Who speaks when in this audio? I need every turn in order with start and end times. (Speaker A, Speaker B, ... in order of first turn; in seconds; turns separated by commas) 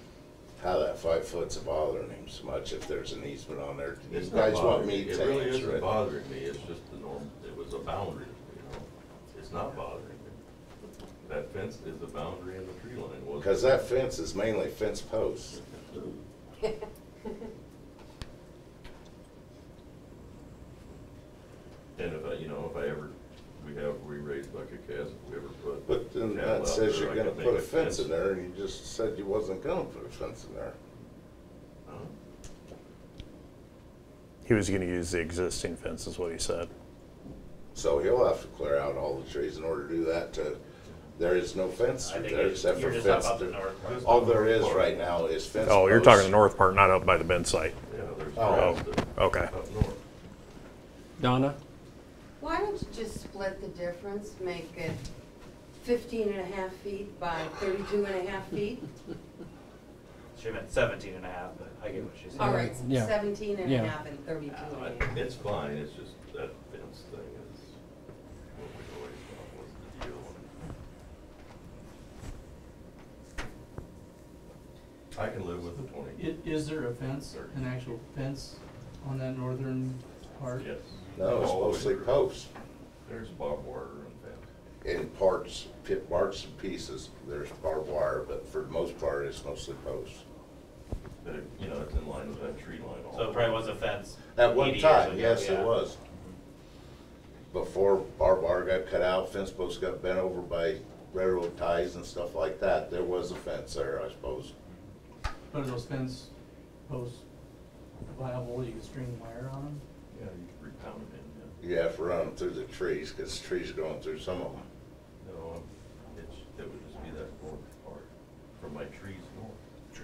Speaker A: 0.6-5.9, Speaker B: 4.1-10.4, Speaker B: 11.2-13.7, Speaker A: 13.4-15.6, Speaker B: 15.6-16.1, Speaker B: 22.0-28.1, Speaker A: 25.9-30.8, Speaker B: 31.9-32.1, Speaker C: 34.5-36.7, Speaker A: 37.7-40.6, Speaker A: 41.1-46.3, Speaker D: 42.0-44.2, Speaker B: 43.8-45.0, Speaker C: 45.7-47.8, Speaker B: 47.8-50.0, Speaker A: 48.4-48.8, Speaker C: 48.4-49.5, Speaker E: 51.2-51.6, Speaker F: 52.4-55.0, Speaker F: 55.8-58.9, Speaker D: 60.4-62.6, Speaker F: 62.3-65.3, Speaker E: 62.4-63.9, Speaker B: 64.5-67.7, Speaker B: 68.5-70.6, Speaker B: 75.1-77.7, Speaker G: 75.8-80.7, Speaker B: 80.5-82.3, Speaker A: 81.2-82.5, Speaker B: 83.0-84.5, Speaker A: 84.8-90.2, Speaker B: 91.2-93.7, Speaker D: 93.1-96.3, Speaker A: 94.3-96.0, Speaker A: 97.5-104.5, Speaker G: 105.5-106.3, Speaker G: 106.9-107.2, Speaker G: 108.1-109.8, Speaker B: 110.1-111.6, Speaker A: 111.6-114.7, Speaker B: 115.2-119.6